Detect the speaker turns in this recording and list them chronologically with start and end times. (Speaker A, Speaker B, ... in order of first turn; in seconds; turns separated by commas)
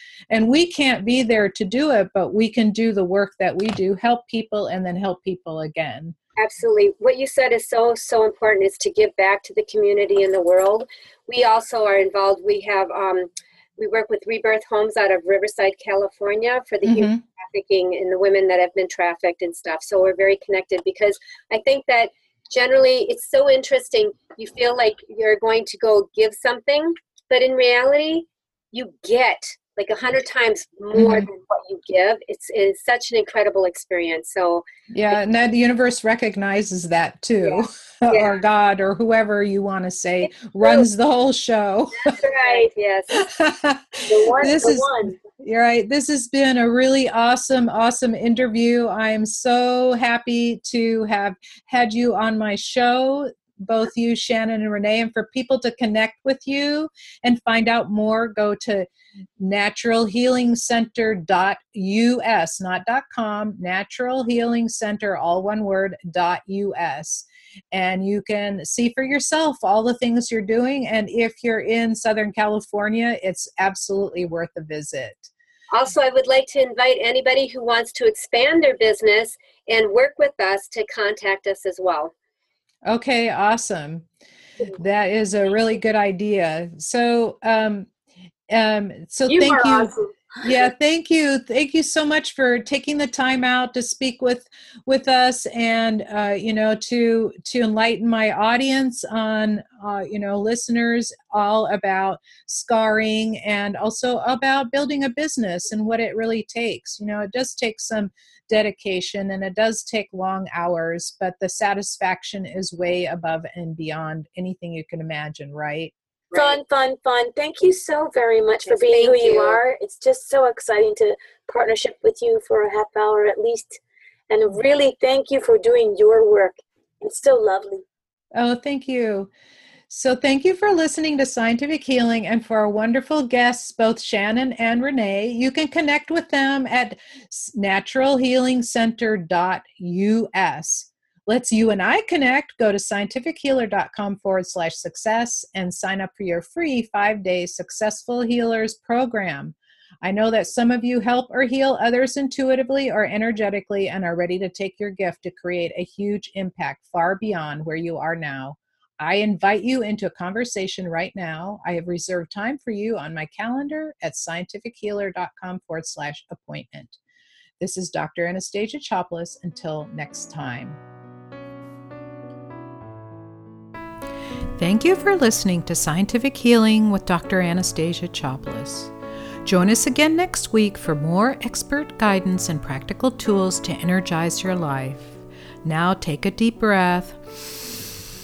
Speaker A: 0.3-6.2, Speaker B: 6.4-35.2, Speaker A: 16.8-17.2, Speaker A: 30.9-31.3, Speaker A: 34.9-42.1, Speaker B: 37.4-38.4, Speaker C: 40.6-40.9, Speaker C: 42.0-42.7, Speaker B: 42.1-43.2, Speaker A: 43.1-75.3, Speaker C: 44.1-45.1, Speaker B: 75.7-82.1, Speaker A: 82.9-84.0, Speaker A: 84.7-87.9, Speaker A: 88.5-115.9, Speaker C: 89.3-90.5, Speaker B: 116.3-116.6, Speaker C: 116.3-127.8, Speaker B: 118.6-119.6, Speaker A: 128.3-129.3, Speaker A: 129.9-167.0, Speaker A: 167.6-170.8, Speaker A: 174.6-178.9, Speaker A: 179.4-187.8